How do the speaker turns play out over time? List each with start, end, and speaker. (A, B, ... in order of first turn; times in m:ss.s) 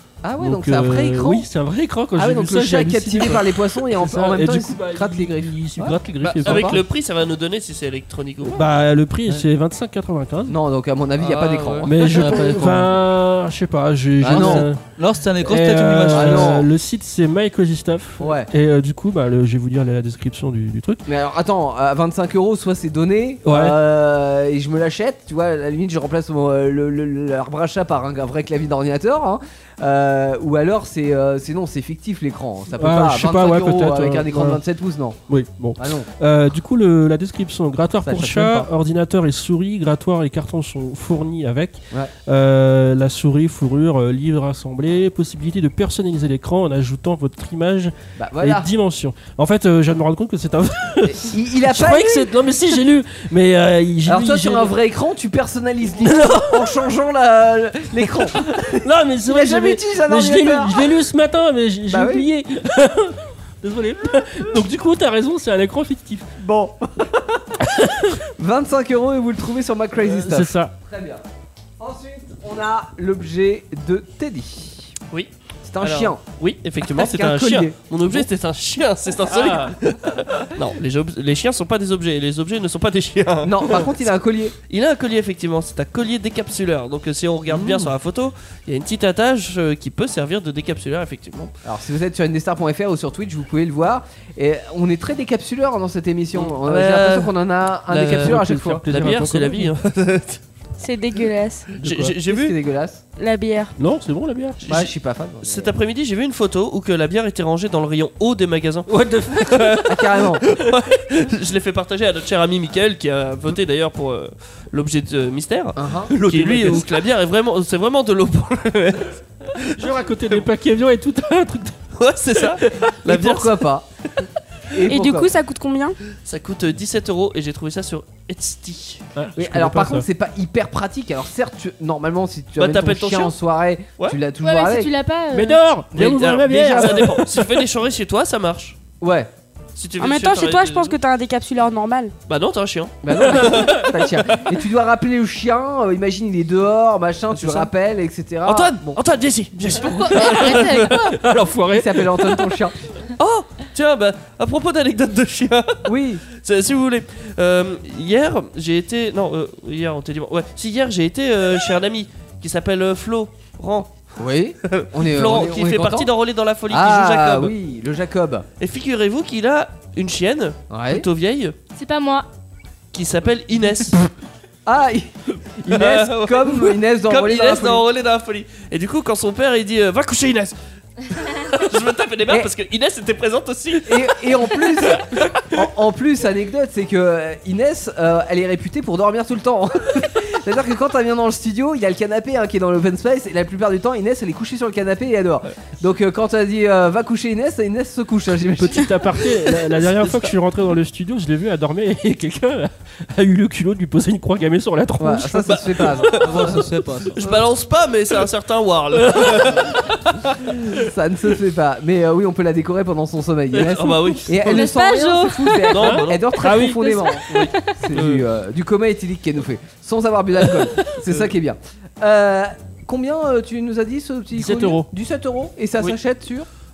0:00.2-0:01.5 A
0:00.4-0:06.8 B
0:02.2-0:06.8 A
0:06.2-0:08.6 C
0:08.4-0:10.5 B
0:10.5-0:12.9 A
0:11.2-0:12.4 C
0:11.8-0:14.8 B
0:12.2-0:12.8 D
0:14.2-0:14.7 A
0:14.2-0:16.6 D
0:15.4-0:21.0 B
0:16.1-0:16.7 A
0:18.2-0:18.5 A
0:21.1-0:35.2 A
0:23.4-0:23.8 B
0:32.8-0:34.6 B
0:35.3-0:54.7 B
0:35.8-0:36.1 A
0:38.0-0:38.7 A
0:48.2-0:48.7 A
0:51.0-0:52.3 A
0:54.0-1:00.9 A
0:56.0-0:56.6 B
0:58.8-1:06.3 B
1:01.9-1:02.3 A
1:06.4-1:07.5 A
1:07.7-1:08.1 B
1:08.4-1:11.2 A
1:10.0-1:10.7 B
1:11.8-1:14.9 A
1:15.1-1:24.1 C
1:15.6-1:16.2 A
1:16.8-1:18.2 A
1:19.3-1:19.7 B
1:23.4-1:24.5 A
1:24.7-1:31.5 C
1:27.5-1:27.9 A
1:31.6-1:38.8 A
1:36.3-1:37.3 C
1:37.9-1:40.4 C
1:38.2-1:39.7 B
1:40.8-1:41.7 E
1:41.8-1:42.5 C
1:41.8-1:42.1 B
1:42.2-1:43.0 A
1:43.2-1:43.7 E
1:43.8-1:44.6 B
1:44.6-1:44.9 C
1:44.6-1:45.7 A
1:45.4-2:00.4 C
1:48.9-1:50.0 B
1:49.9-1:50.4 A
1:55.8-1:56.1 A
1:56.1-1:56.8 B
1:59.8-2:01.8 B
2:02.0-2:03.7 C
2:03.0-2:03.8 A
2:04.7-2:05.3 A
2:04.9-2:06.0 E
2:06.2-2:09.0 C
2:09.2-2:10.0 B
2:09.4-2:14.9 A
2:12.6-2:13.3 C
2:14.4-2:15.6 F
2:15.3-2:17.4 B
2:15.9-2:18.8 C
2:16.5-2:17.1 A
2:19.0-2:19.3 A
2:19.8-2:21.0 C
2:20.0-2:22.1 E
2:22.3-2:24.4 C
2:23.0-2:29.0 A
2:23.5-2:23.8 B
2:27.4-2:27.7 C
2:28.4-2:31.1 C
2:29.8-2:31.1 F
2:30.5-2:32.5 B
2:31.7-2:32.7 A
2:33.2-2:43.9 C
2:35.8-2:36.2 A
2:44.2-2:46.1 A
2:44.6-2:47.5 C
2:46.7-2:48.5 A
2:48.6-2:51.5 C
2:50.7-2:51.0 A
2:51.8-2:52.2 F
2:52.9-2:54.0 C
2:54.6-2:57.8 A
2:55.7-3:00.5 C
3:01.1-3:05.4 C
3:03.8-3:18.9 A
3:18.6-3:25.8 B
3:25.0-3:26.6 A
3:25.5-3:26.3 C
3:26.2-3:27.2 D
3:27.1-3:30.1 C
3:29.1-3:29.6 B
3:30.7-3:46.5 A
3:33.5-3:34.6 C
3:34.5-3:35.6 E
3:35.7-3:36.4 C
3:35.7-3:38.2 B
3:44.4-3:44.9 B